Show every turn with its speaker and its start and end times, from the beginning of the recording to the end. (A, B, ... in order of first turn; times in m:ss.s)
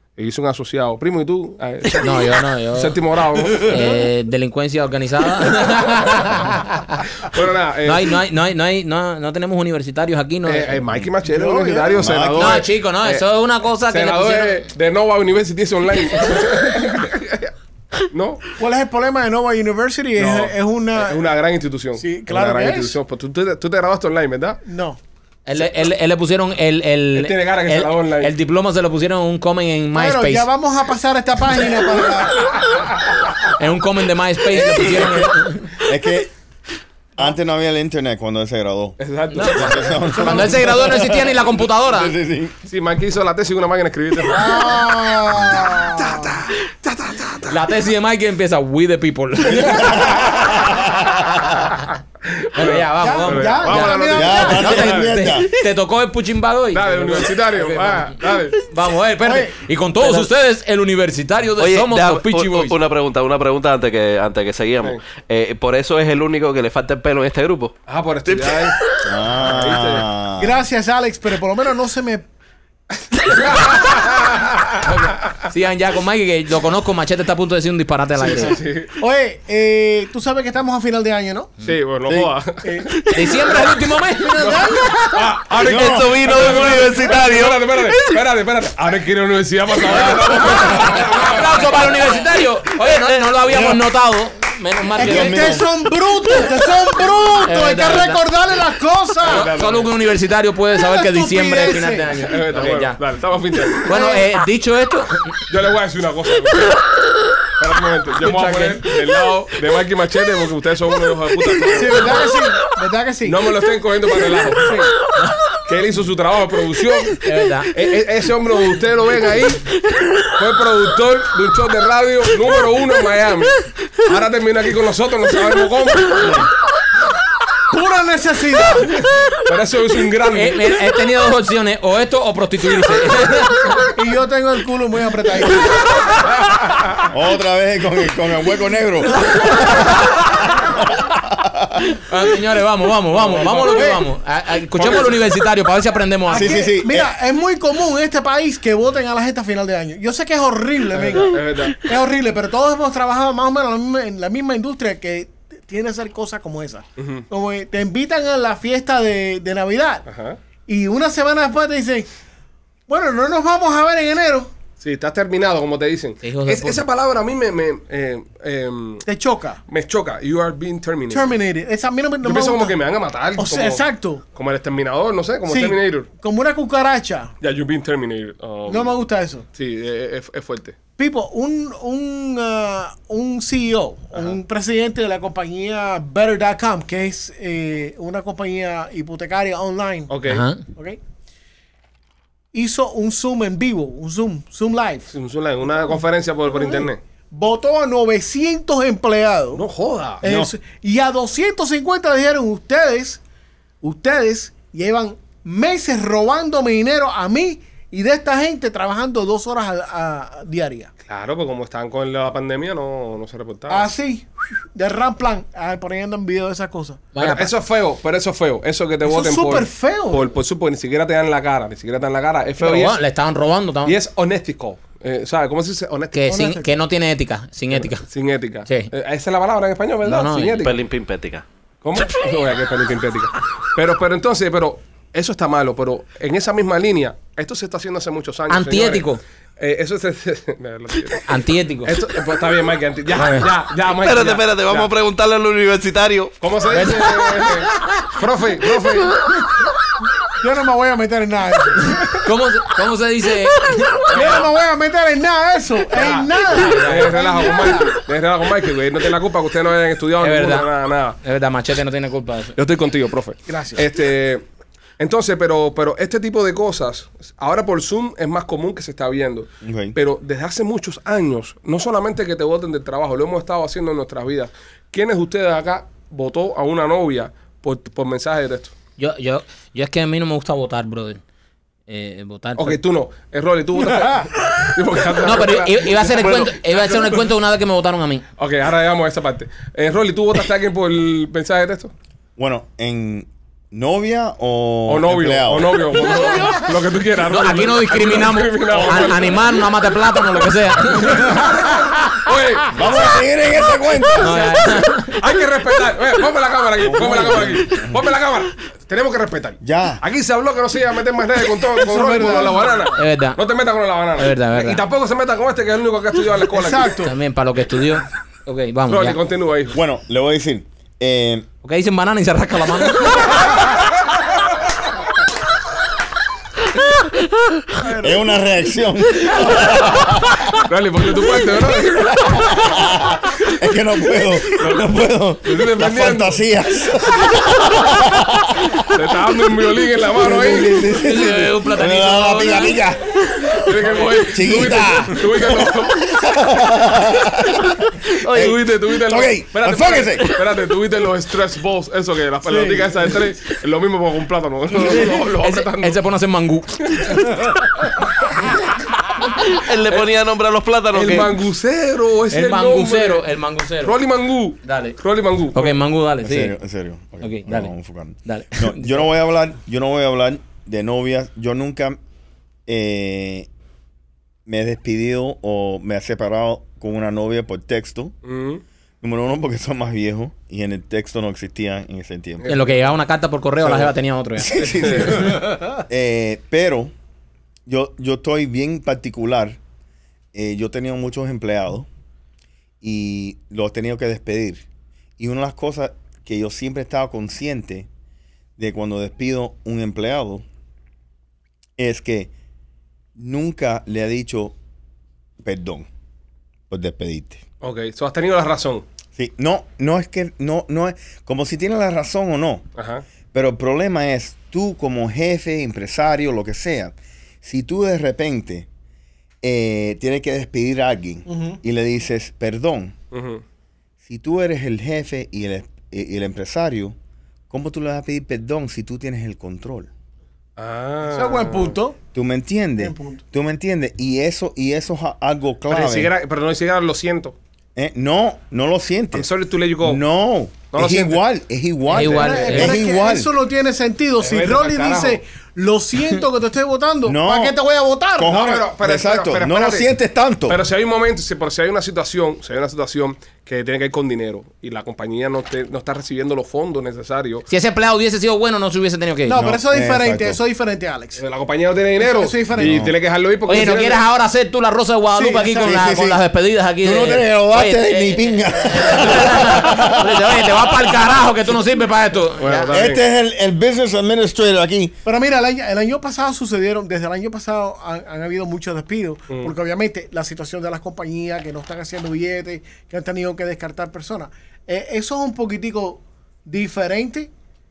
0:00.2-0:03.9 A
0:02.0-0:03.0 B
0:03.5-0:07.0 B
0:07.2-0:08.1 A
0:07.8-0:10.8 B
0:10.5-0:13.2 A
0:11.3-0:12.1 C
0:12.0-0:12.6 D
0:12.4-0:14.6 B
0:13.9-0:17.5 A
0:18.0-0:18.5 A
0:18.6-0:21.2 C
0:20.2-0:24.6 A
0:22.0-0:23.0 C
0:24.6-0:25.0 C
0:25.4-0:30.5 B
0:27.1-0:28.3 A
0:29.9-0:32.5 C
0:33.6-0:35.7 B
0:34.6-0:36.3 D
0:37.2-0:42.5 D
0:39.0-0:40.1 A
0:39.3-0:42.1 B
0:40.1-0:40.6 C
0:42.7-0:44.9 A
0:44.2-0:46.4 C
0:45.8-0:47.6 A
0:47.5-0:50.2 B
0:49.5-0:51.7 D
0:52.4-0:55.2 A
0:52.5-1:02.8 B
0:53.0-0:55.0 C
0:54.1-0:55.5 D
0:56.7-0:58.6 A
1:01.6-1:07.7 E
1:07.9-1:08.8 A
1:08.3-1:09.0 E
1:09.0-1:10.6 D
1:09.4-1:10.1 A
1:10.4-1:12.2 C
1:13.3-1:14.5 A
1:14.8-1:18.6 B
1:18.2-1:18.9 A
1:18.3-1:21.5 C
1:21.6-1:23.0 A
1:22.1-1:22.3 D
1:22.6-1:22.9 C
1:23.1-1:24.9 B
1:24.3-1:25.3 C
1:24.4-1:31.5 A
1:25.6-1:26.3 D
1:25.6-1:28.0 E
1:30.4-1:30.9 C
1:30.7-1:35.6 B
1:33.5-1:33.8 D
1:34.9-1:39.5 C
1:35.0-1:35.7 D
1:37.4-1:38.2 B
1:39.2-1:39.9 A
1:39.2-1:43.0 B
1:40.7-1:42.2 C
1:42.2-1:43.9 A
1:43.8-1:45.3 B
1:43.9-1:44.3 C
1:45.5-1:46.7 A
1:47.6-1:52.2 A
1:48.2-1:48.8 B
1:51.7-1:53.4 C
1:53.2-1:54.8 A
1:54.6-1:54.9 C
1:55.6-1:59.6 A
1:57.2-1:57.7 B
2:00.3-2:06.4 A
2:07.7-2:09.0 C
2:09.1-2:10.6 A
2:10.3-2:13.8 B
2:14.0-2:16.2 C
2:17.1-2:22.0 D
2:22.1-2:26.6 B
2:23.1-2:23.9 A
2:23.7-2:24.0 C
2:24.8-2:25.2 A
2:26.3-2:40.0 C
2:26.3-2:27.1 D
2:30.9-2:31.8 A
2:37.0-2:37.2 A
2:40.1-2:40.4 A
2:40.7-2:42.1 C
2:42.9-2:44.5 C
2:44.8-2:49.0 A
2:46.2-2:46.8 B
2:49.0-2:49.6 C
2:49.7-2:51.4 A
2:51.1-2:52.8 C
2:52.2-2:56.1 A
2:53.4-2:54.2 C
2:55.5-2:57.3 C
2:57.4-3:00.8 A
2:58.7-2:59.4 C
3:01.0-3:10.1 C
3:10.1-3:10.4 A
3:10.2-3:10.6 B
3:12.5-3:15.1 C
3:15.1-3:17.0 A
3:16.5-3:19.6 C
3:19.5-3:20.2 A
3:20.2-3:23.2 C
3:20.2-3:20.5 D
3:23.8-3:30.9 C
3:31.1-3:33.9 A
3:33.7-3:37.0 C
3:37.1-3:37.5 B
3:37.2-3:43.0 A
3:39.0-3:40.3 C
3:42.6-3:44.0 B
3:43.8-3:46.2 A
3:46.1-3:48.0 B
3:46.2-3:46.7 C
3:47.7-3:50.8 A
3:50.0-3:50.7 B
3:50.6-3:51.4 E
3:51.8-3:59.1 A
3:58.5-3:59.2 B
3:59.6-4:01.3 A
4:01.3-4:01.9 B
4:01.8-4:04.9 A
4:03.2-4:03.5 B
4:04.0-4:06.3 E
4:06.4-4:09.2 A
4:06.7-4:07.4 B
4:10.4-4:12.1 C
4:11.8-4:14.0 B
4:14.0-4:18.0 C
4:14.1-4:14.5 A
4:15.9-4:21.2 A
4:16.5-4:17.2 B
4:20.2-4:20.7 B
4:21.2-4:22.5 B
4:22.6-4:24.4 A
4:23.5-4:23.8 C
4:25.0-4:38.7 A
4:29.6-4:30.0 D
4:39.0-4:41.2 B
4:41.9-4:42.8 B
4:42.6-4:47.2 A
4:45.2-4:48.2 B
4:46.2-4:46.5 E
4:48.4-4:51.9 A
4:52.4-4:55.8 D
4:54.9-4:59.4 A
4:56.1-4:56.6 B
4:56.2-4:56.5 C
4:57.3-5:01.4 B
5:00.9-5:02.8 A
5:02.7-5:04.6 D
5:04.2-5:05.2 B
5:05.1-5:16.9 A
5:06.8-5:08.0 D
5:09.6-5:10.0 D
5:11.8-5:12.8 C
5:13.0-5:13.4 B
5:14.2-5:14.8 B
5:16.5-5:17.1 C
5:17.0-5:19.2 B
5:18.9-5:19.8 A
5:19.7-5:21.4 D
5:21.6-5:23.3 B
5:27.8-5:28.2 C
5:28.0-5:30.5 D
5:30.5-5:32.5 A
5:32.2-5:38.8 D
5:34.6-5:34.9 A
5:35.4-5:36.4 A
5:38.9-5:40.8 A
5:40.2-5:50.4 D
5:40.9-5:42.8 B
5:43.5-5:46.1 A
5:48.2-5:56.0 A
5:52.5-5:53.0 C
5:54.8-5:55.2 C
5:54.8-5:57.2 B
5:56.9-5:57.2 A
5:59.5-6:01.4 E
6:00.9-6:03.2 A
6:02.3-6:04.0 B
6:03.8-6:05.8 A
6:04.6-6:05.0 B
6:05.5-6:06.5 B
6:06.2-6:12.0 D
6:07.2-6:07.7 B
6:08.2-6:09.0 B
6:12.7-6:13.5 D
6:14.4-6:18.1 D
6:18.2-6:18.6 A
6:19.0-6:22.5 D
6:22.4-6:22.7 A
6:22.5-6:25.3 B
6:23.6-6:26.9 D
6:24.6-6:25.4 A
6:27.7-6:29.6 D
6:30.3-6:31.9 D
6:32.8-6:34.6 D
6:35.2-6:37.9 D
6:38.6-6:40.4 D
6:41.8-6:42.3 D
6:43.2-6:44.5 D
6:45.4-6:45.9 D
6:46.7-6:47.4 D
6:47.6-6:48.8 A
6:49.2-6:52.6 D
6:52.8-6:53.0 A
6:53.3-6:58.7 D
6:59.4-7:02.9 D
7:01.3-7:01.6 C
7:03.1-7:03.4 A
7:04.0-7:07.0 D
7:07.5-7:09.9 D
7:10.6-7:11.8 A
7:11.0-7:12.0 C
7:12.1-7:16.1 D
7:12.8-7:13.2 C
7:15.7-7:17.4 A
7:17.8-7:19.3 D
7:19.1-7:20.0 A
7:19.8-7:23.3 D
7:20.7-7:21.2 A
7:21.9-7:22.8 B
7:22.0-7:28.4 C
7:24.2-7:25.2 A
7:27.0-7:27.6 D
7:28.2-7:30.6 D
7:28.2-7:29.9 A
7:30.5-7:37.4 A
7:37.5-7:39.5 B
7:39.2-7:41.2 C
7:39.4-7:40.4 D
7:41.2-7:44.0 A
7:42.0-7:42.8 C
7:42.6-7:42.9 D
7:43.4-7:52.7 B
7:45.1-7:45.8 C
7:45.6-7:46.2 D
7:46.8-7:50.5 D
7:52.4-7:53.0 A
7:52.7-7:54.9 D
7:55.0-8:07.3 C
7:59.3-7:59.5 A